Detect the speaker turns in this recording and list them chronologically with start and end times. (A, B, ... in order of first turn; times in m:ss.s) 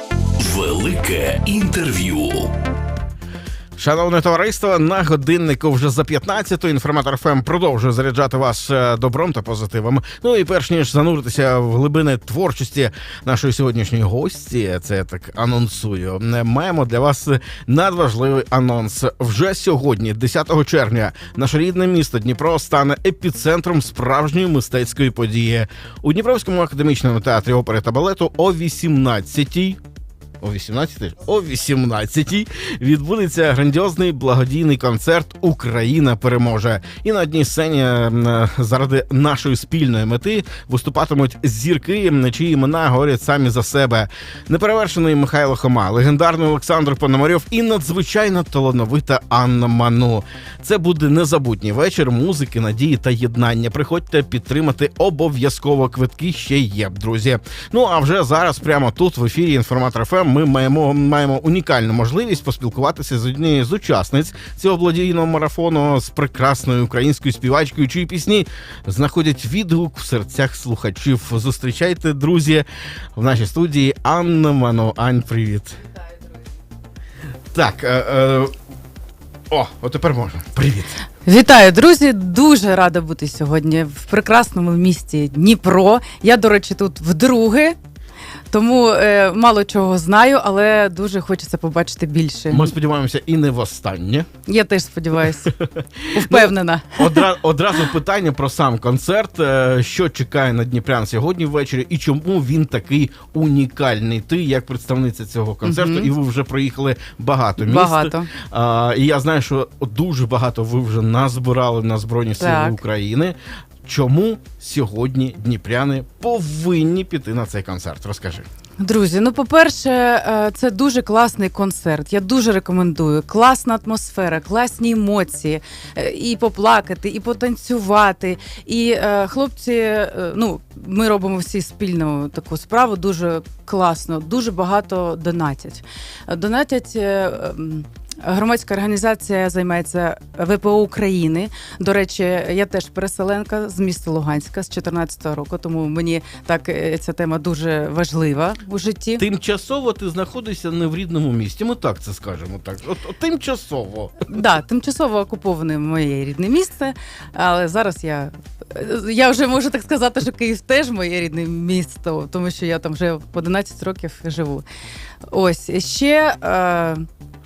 0:00.4-0:02.5 A
0:03.8-0:29.8 B
0:30.4-1:15.8 B
1:17.5-1:18.5 B
1:19.5-1:21.0 B
1:21.2-1:27.8 C
1:28.5-1:32.7 C
1:32.5-1:34.3 B
1:34.4-1:35.5 C
1:35.5-1:58.4 B
1:36.1-1:37.3 C
1:45.6-1:46.1 C
1:47.6-1:48.3 C
1:52.4-1:52.8 C
1:58.8-2:29.2 C
2:29.2-2:34.2 B
2:34.3-2:44.6 C
2:45.3-2:47.0 C